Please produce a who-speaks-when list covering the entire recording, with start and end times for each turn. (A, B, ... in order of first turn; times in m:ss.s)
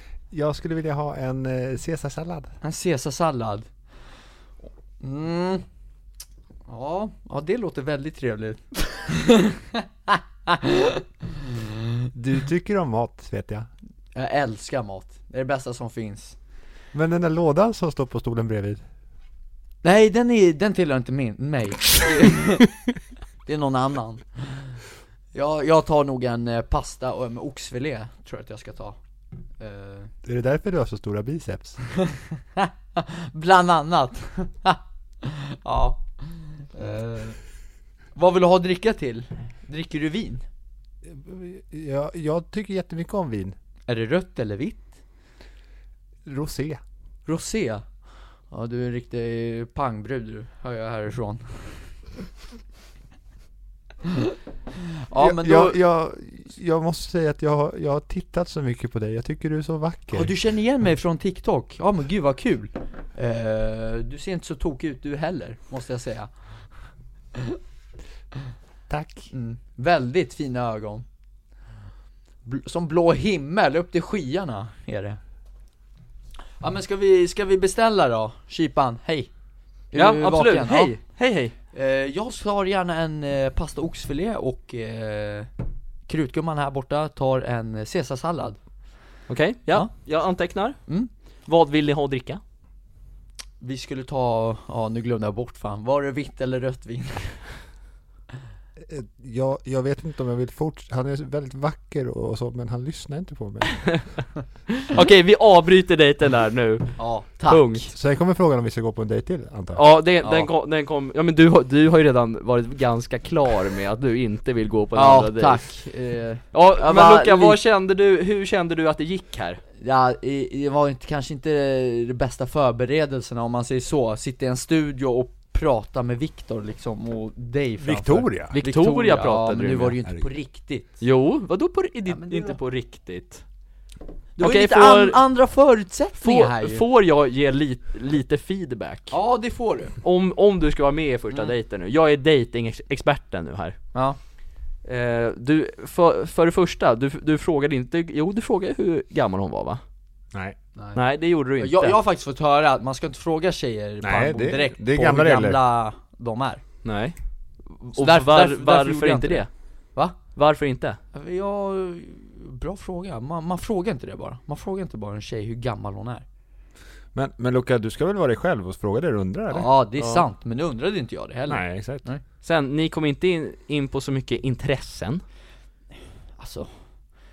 0:00.3-0:02.5 A
0:02.6-0:03.7 B
0:05.0-0:05.6 B
0:06.7-0:11.9 B
0:12.2-0:13.7 A
0:14.2-0:16.4 B
0:16.9-0:18.8 A
0:19.8-0:22.7 B
0:23.5-0:24.7 B
0:25.3-0:29.0 B
0:29.6-0:30.1 B
0:30.2-0:31.8 A
0:32.0-0:37.4 B
0:38.2-0:40.4 B
0:41.1-0:43.6 A
0:43.9-0:44.9 B
0:46.3-0:46.8 A
0:47.3-0:47.8 B
0:48.5-0:51.8 B
0:54.1-0:54.4 B
0:55.1-0:55.8 B
0:55.2-1:00.3 A
1:00.1-1:06.3 B
1:08.9-1:09.3 A
1:09.3-1:11.0 B
1:12.4-1:15.2 B
1:16.6-1:19.3 B
1:19.9-1:21.0 B
1:19.9-1:21.5 C
1:21.7-1:25.5 B
1:26.1-1:28.6 B
1:29.3-1:30.8 C
1:31.5-1:32.4 C
1:33.6-1:37.4 B
1:38.8-1:43.8 A
1:43.8-1:44.0 C
1:44.7-1:47.9 C
1:47.0-1:47.9 B
1:47.9-1:49.8 A
1:49.8-1:55.6 C
1:50.2-1:50.5 B
1:55.0-1:57.6 B
1:56.5-1:59.6 C
1:59.8-2:11.0 B
2:07.8-2:08.6 A
2:08.6-2:10.0 C
2:11.0-2:13.4 C
2:12.1-2:12.6 B
2:14.4-2:16.8 B
2:14.4-2:15.2 C
2:16.2-2:19.2 C
2:19.1-2:20.0 B
2:20.0-2:23.8 C
2:24.8-2:29.8 C
2:30.8-2:31.0 B
2:31.0-2:32.0 C
2:31.6-2:36.6 B
2:34.0-2:35.6 A
2:36.8-2:37.2 C
2:37.9-2:39.5 C
2:37.9-2:40.2 B
2:40.3-2:41.0 C
2:41.1-2:46.2 B
2:47.1-2:49.7 A
2:49.5-2:52.2 B
2:50.0-2:50.2 C
2:51.5-2:52.0 A
2:52.4-2:55.2 C
2:56.4-2:56.7 B